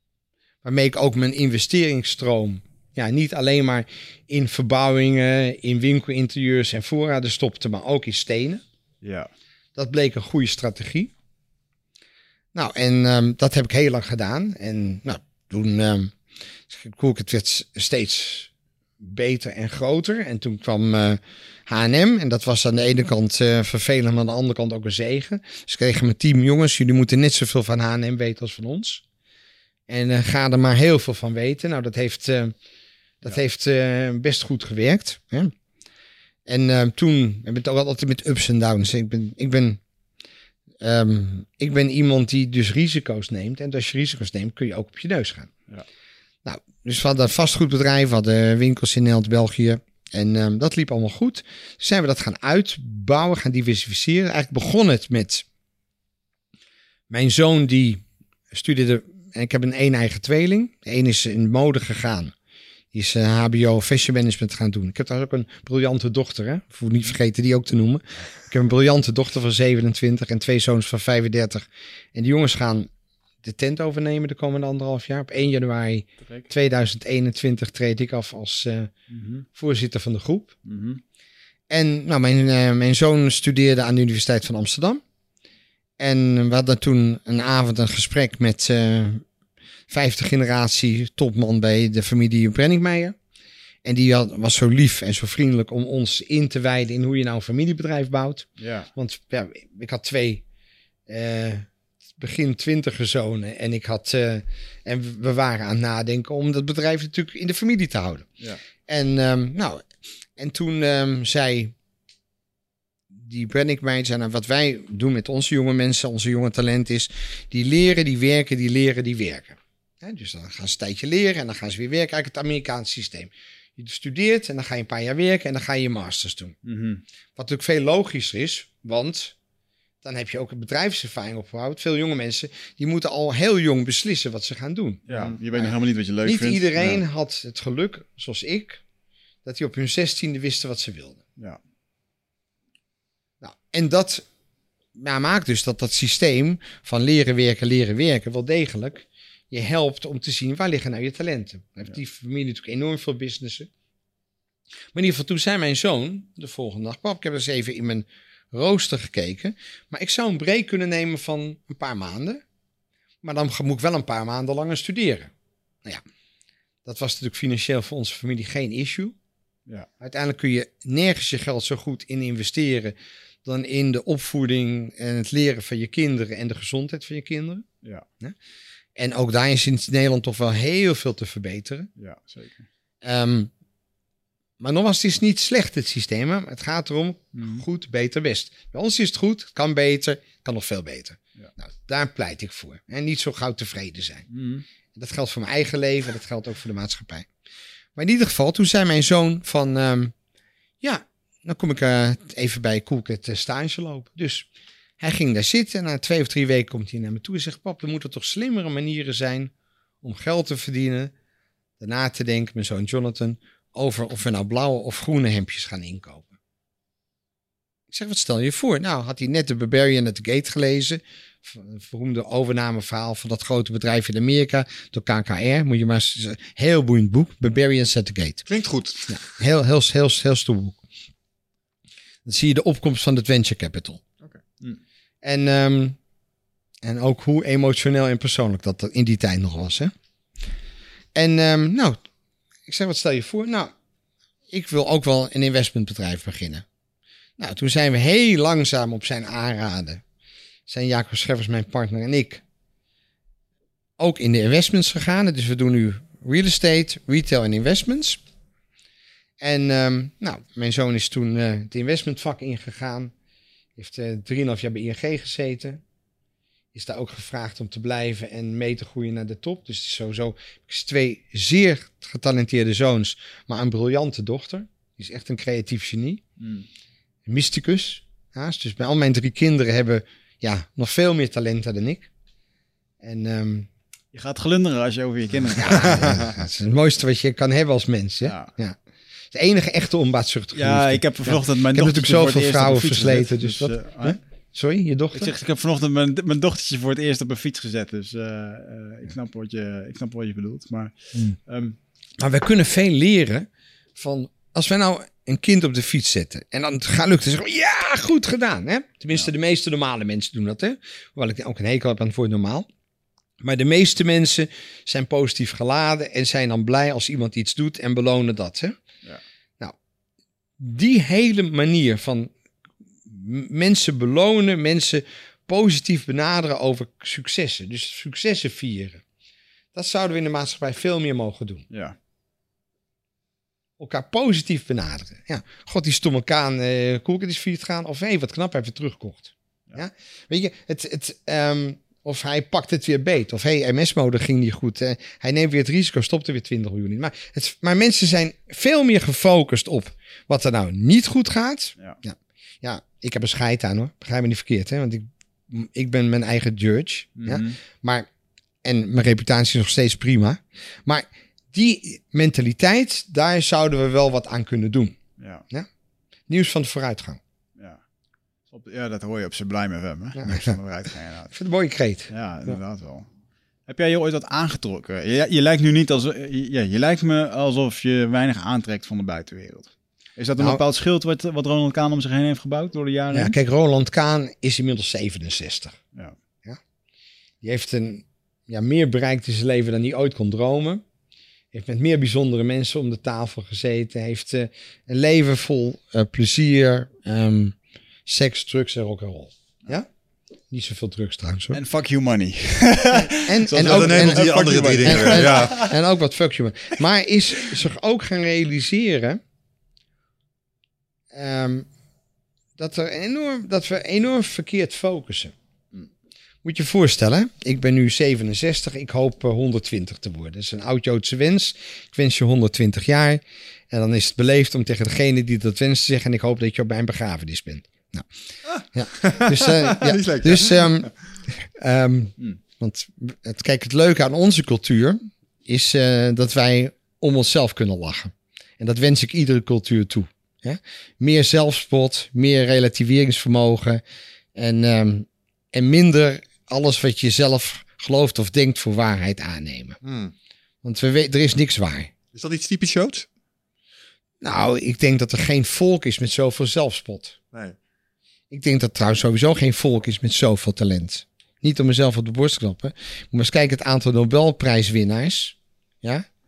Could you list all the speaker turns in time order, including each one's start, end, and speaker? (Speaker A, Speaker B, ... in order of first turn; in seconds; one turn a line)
Speaker A: 0.6-8.6
Speaker B: 9.0-9.3
Speaker A: 9.8-11.1
Speaker A: 12.5-16.1
Speaker A: 16.7-18.5
Speaker A: 19.0-29.0
Speaker A: 29.9-32.5
Speaker A: 33.2-35.5
Speaker A: 36.5-39.8
Speaker A: 40.8-45.5
Speaker A: 46.4-55.4
Speaker A: 57.1-62.3
Speaker A: 62.9-72.9
Speaker A: 73.4-78.9
Speaker B: 79.1-79.4
Speaker A: 79.5-80.5
Speaker B: 80.7-81.0
Speaker A: 81.7-85.0
Speaker A: 86.0-89.2
Speaker A: 89.9-93.1
Speaker A: 93.8-100.4
Speaker B: 98.6-98.9
Speaker A: 101.1-101.7
Speaker A: 102.2-108.3
Speaker A: 108.9-111.7
Speaker A: 113.1-126.6
Speaker B: 126.6-127.0
Speaker A: 127.3-129.3
Speaker A: 130.0-135.7
Speaker B: 135.1-137.0
Speaker A: 136.2-138.8
Speaker A: 139.4-141.2
Speaker A: 143.4-144.2
Speaker A: 144.9-153.7
Speaker A: 154.9-162.4
Speaker A: 163.2-165.3
Speaker A: 166.8-169.1
Speaker A: 170.0-177.7
Speaker A: 178.9-181.9
Speaker B: 182.0-182.7
Speaker A: 183.0-183.5
Speaker A: 184.6-194.3
Speaker B: 187.3-187.6
Speaker B: 194.3-194.6
Speaker A: 194.9-197.3
Speaker A: 197.9-200.1
Speaker A: 200.8-204.5
Speaker A: 205.0-211.1
Speaker A: 211.8-216.4
Speaker A: 217.9-228.4
Speaker C: 228.5-229.2
Speaker A: 229.1-230.8
Speaker A: 232.2-234.0
Speaker A: 235.2-236.0
Speaker A: 236.8-239.9
Speaker A: 241.1-242.0
Speaker A: 242.7-243.7
Speaker A: 244.5-246.6
Speaker A: 247.4-250.0
Speaker A: 250.7-252.4
Speaker A: 254.0-258.2
Speaker A: 259.4-263.1
Speaker A: 263.8-265.8
Speaker A: 266.7-276.2
Speaker B: 276.4-276.6
Speaker A: 277.2-282.1
Speaker A: 283.0-283.7
Speaker B: 284.1-286.4
Speaker A: 285.5-288.8
Speaker B: 288.2-288.5
Speaker A: 289.3-295.3
Speaker B: 290.5-294.2
Speaker B: 295.1-301.8
Speaker A: 302.2-312.7
Speaker A: 313.4-318.8
Speaker A: 320.6-322.3
Speaker A: 323.1-329.0
Speaker A: 329.7-331.6
Speaker B: 331.7-331.9
Speaker A: 333.8-358.1
Speaker B: 357.2-357.6
Speaker A: 358.6-364.9
Speaker B: 365.2-365.4
Speaker A: 366.3-367.2
Speaker B: 368.5-371.3
Speaker A: 370.1-370.5
Speaker A: 371.3-372.6
Speaker B: 372.1-373.1
Speaker B: 373.7-383.3
Speaker A: 383.1-385.8
Speaker A: 387.4-390.8
Speaker A: 391.5-397.6
Speaker A: 398.1-399.9
Speaker A: 400.5-401.6
Speaker B: 401.5-405.7
Speaker A: 403.2-409.2
Speaker C: 403.6-405.6
Speaker A: 411.1-411.7
Speaker A: 412.6-415.3
Speaker A: 416.4-428.1
Speaker C: 428.5-430.9
Speaker A: 428.7-443.8
Speaker A: 444.4-449.8
Speaker C: 449.8-450.1
Speaker A: 450.6-451.9
Speaker C: 452.1-453.1
Speaker A: 454.2-457.2
Speaker A: 458.3-466.0